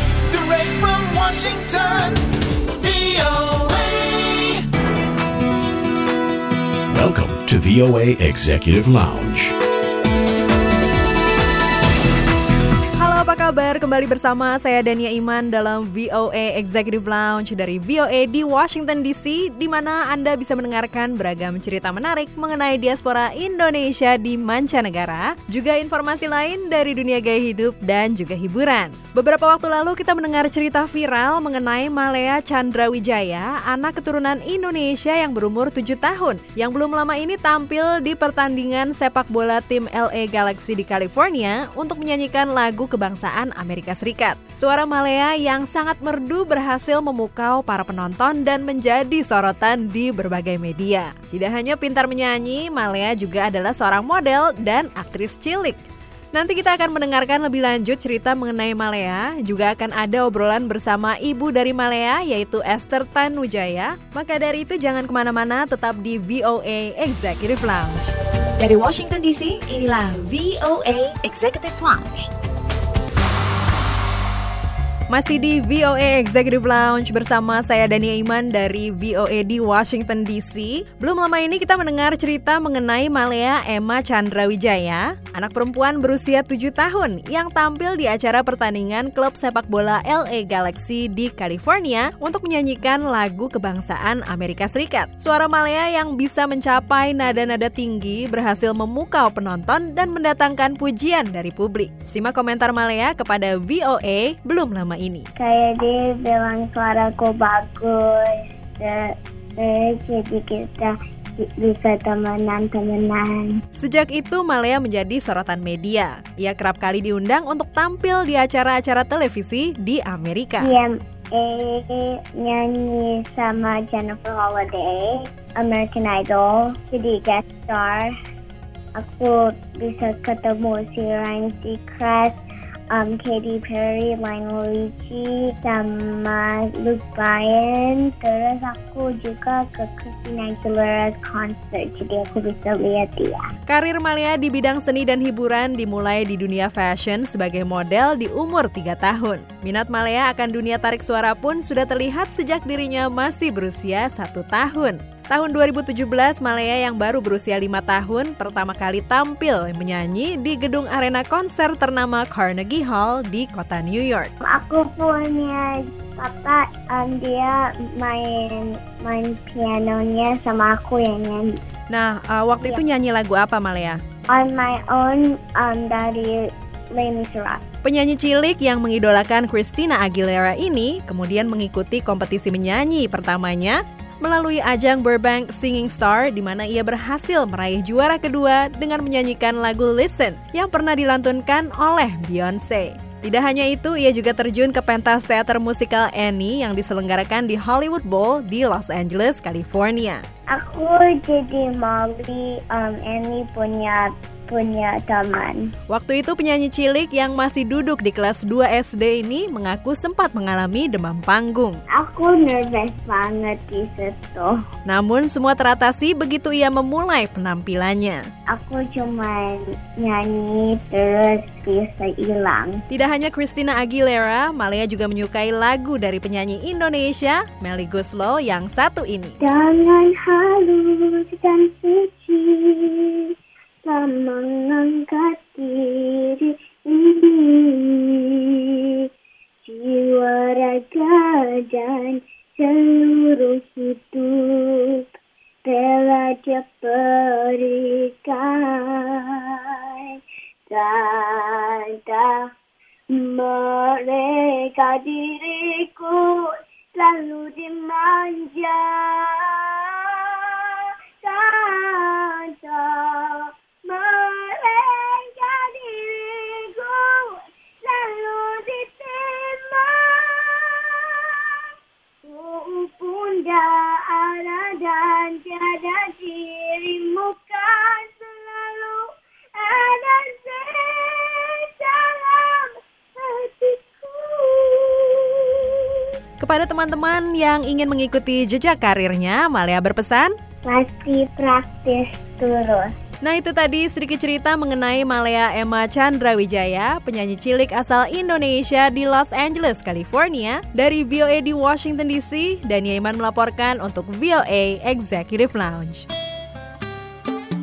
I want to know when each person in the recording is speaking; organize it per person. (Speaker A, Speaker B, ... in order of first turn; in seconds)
Speaker A: 0.3-2.2, 2.8-4.7
Speaker B: 6.9-9.5
Speaker C: 13.0-55.8, 56.3-68.1, 75.1-105.3, 113.8-120.7, 143.7-164.3, 171.9-174.0, 177.8-200.2, 205.9-211.8, 214.9-218.2, 222.9-229.4, 286.4-290.3, 293.2-306.1
Speaker D: 68.6-72.3
Speaker E: 105.4-109.1, 109.6-113.5, 120.6-128.1, 129.0-132.4, 132.9-143.4, 164.4-171.5, 174.3-176.4, 176.9-177.6, 200.5-205.6, 211.9-214.6, 218.5-222.8, 229.4-233.3, 233.8-238.8, 239.6-245.1, 245.6-250.2, 250.7-252.4, 253.1-271.6, 272.2-279.0, 279.6-285.8, 290.6-292.9